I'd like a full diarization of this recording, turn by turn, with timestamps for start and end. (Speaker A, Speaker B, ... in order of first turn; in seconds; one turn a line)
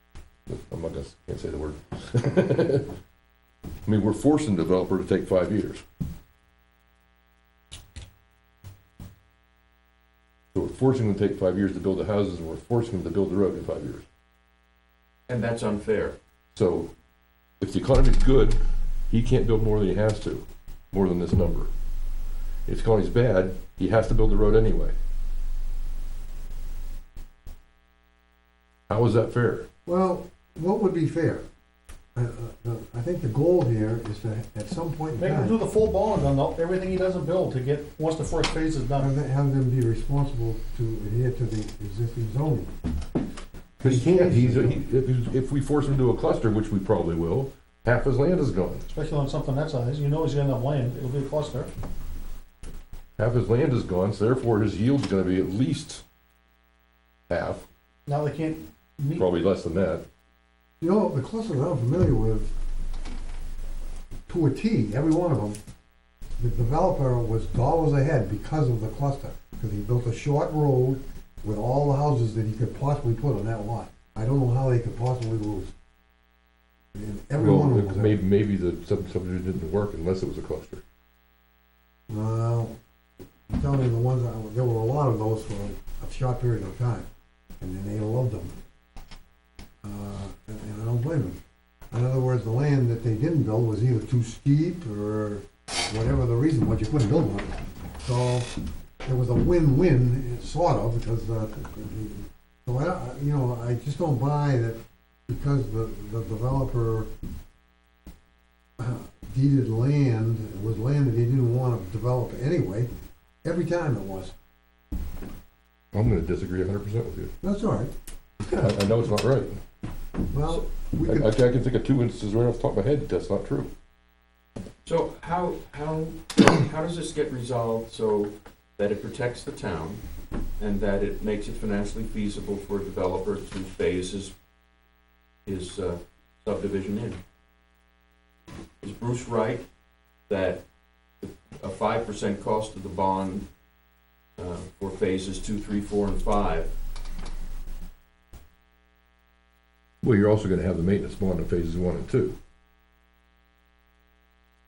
Speaker A: 0.5-2.9
Speaker A: 3.9-5.8
Speaker A: 10.5-14.1
Speaker B: 15.3-16.2
Speaker A: 16.6-16.9
Speaker A: 17.6-21.7
Speaker A: 22.7-24.9
Speaker A: 28.9-29.7
Speaker C: 29.9-31.4
Speaker C: 32.1-35.6
Speaker D: 35.2-39.1
Speaker C: 39.0-42.7
Speaker A: 43.8-48.9
Speaker C: 43.8-44.8
Speaker D: 48.9-51.7
Speaker A: 53.2-56.0
Speaker A: 57.3-57.7
Speaker D: 58.1-59.3
Speaker A: 59.1-60.0
Speaker C: 60.8-62.5
Speaker C: 64.3-65.6
Speaker C: 66.4-75.7
Speaker C: 76.9-78.2
Speaker A: 77.4-80.8
Speaker C: 82.1-82.7
Speaker C: 83.5-87.1
Speaker C: 87.6-88.5
Speaker C: 89.8-91.4
Speaker C: 91.9-98.5
Speaker C: 99.0-107.1
Speaker C: 108.8-112.9
Speaker C: 113.4-114.3
Speaker A: 115.9-117.3
Speaker C: 117.4-118.8
Speaker A: 118.6-119.6
Speaker C: 120.3-121.3
Speaker A: 121.0-123.7
Speaker B: 124.8-130.0
Speaker B: 130.6-134.3
Speaker B: 135.5-137.2
Speaker B: 138.8-139.7
Speaker B: 140.3-140.6
Speaker B: 141.2-143.5
Speaker B: 144.4-146.7
Speaker A: 150.0-152.4